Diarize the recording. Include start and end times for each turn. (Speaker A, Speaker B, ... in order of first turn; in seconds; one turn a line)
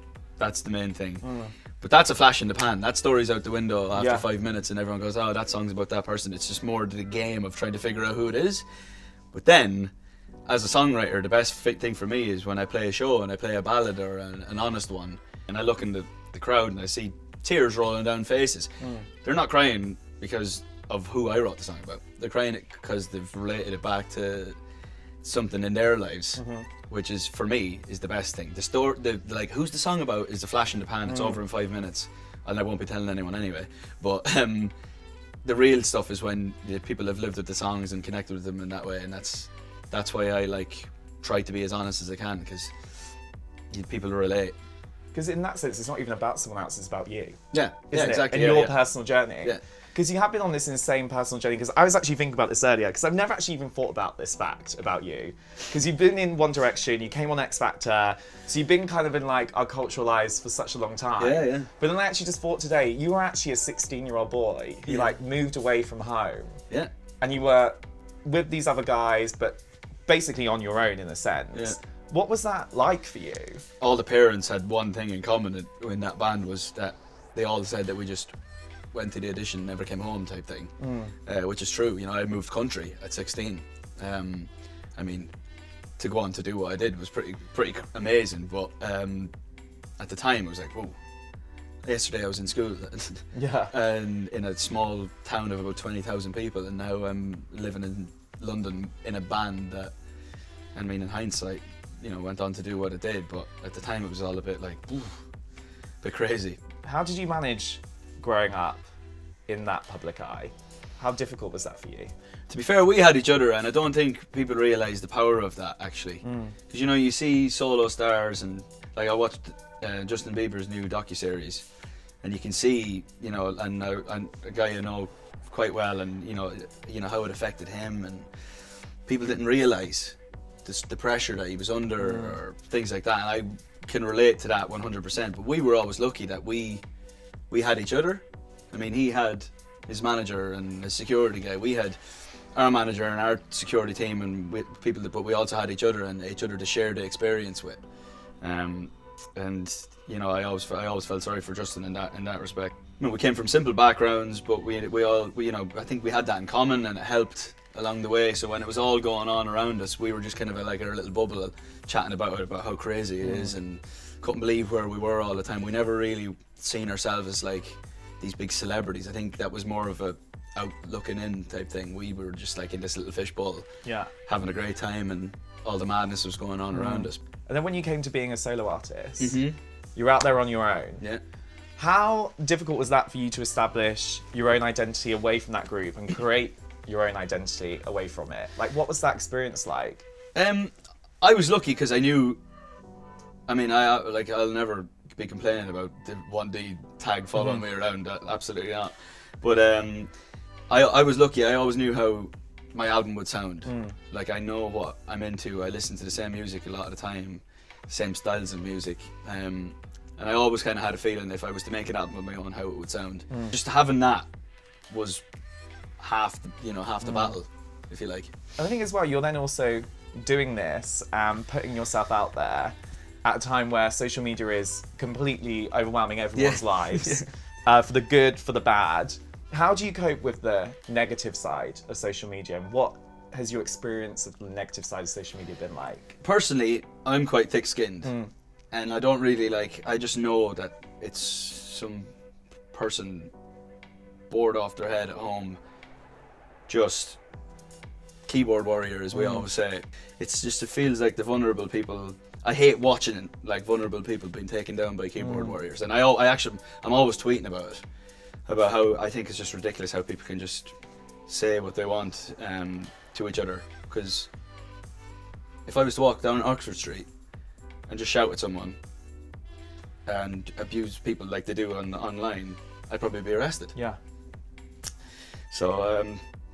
Speaker A: 0.4-1.2
Speaker B: 1.2-1.5
Speaker A: 1.8-8.6
Speaker B: 4.0-4.2
Speaker A: 9.3-9.9
Speaker A: 10.5-24.6
Speaker B: 18.8-19.1
Speaker A: 25.2-34.7
Speaker B: 26.4-26.7
Speaker B: 31.1-31.4
Speaker A: 35.4-42.9
Speaker A: 43.7-44.5
Speaker B: 45.1-66.6
Speaker A: 47.5-48.8
Speaker A: 61.2-61.7
Speaker A: 64.8-65.1
Speaker B: 67.2-73.6
Speaker A: 73.8-78.3
Speaker A: 78.9-80.7
Speaker B: 80.8-81.1
Speaker A: 81.2-85.3
Speaker A: 86.0-89.3
Speaker A: 90.0-90.9
Speaker A: 91.8-99.9
Speaker B: 93.3-93.7
Speaker A: 100.7-105.2
Speaker A: 106.0-106.6
Speaker B: 106.8-108.8
Speaker B: 109.5-112.1
Speaker A: 112.5-121.7
Speaker B: 116.2-116.5
Speaker A: 122.2-136.8
Speaker B: 132.0-132.4
Speaker A: 137.5-147.8
Speaker A: 148.4-177.2
Speaker B: 163.2-163.6
Speaker B: 173.8-174.1
Speaker B: 176.7-179.4
Speaker A: 179.2-179.6
Speaker B: 179.9-181.0
Speaker B: 181.8-190.0
Speaker A: 190.3-192.4
Speaker A: 193.5-200.1
Speaker B: 197.3-197.6
Speaker A: 200.7-214.3
Speaker B: 203.6-203.9
Speaker A: 214.9-215.2
Speaker A: 216.0-218.3
Speaker B: 217.0-217.4
Speaker B: 218.6-236.2
Speaker A: 226.3-227.3
Speaker A: 236.2-238.1
Speaker B: 238.0-238.3
Speaker A: 238.7-242.1
Speaker A: 242.7-243.3
Speaker A: 244.3-245.6
Speaker A: 246.7-247.2
Speaker A: 248.2-257.8
Speaker B: 249.1-249.5
Speaker B: 255.2-255.6
Speaker A: 258.4-260.7
Speaker A: 261.3-264.3
Speaker A: 265.6-267.1
Speaker A: 267.9-268.8
Speaker A: 270.1-273.7
Speaker A: 275.5-276.2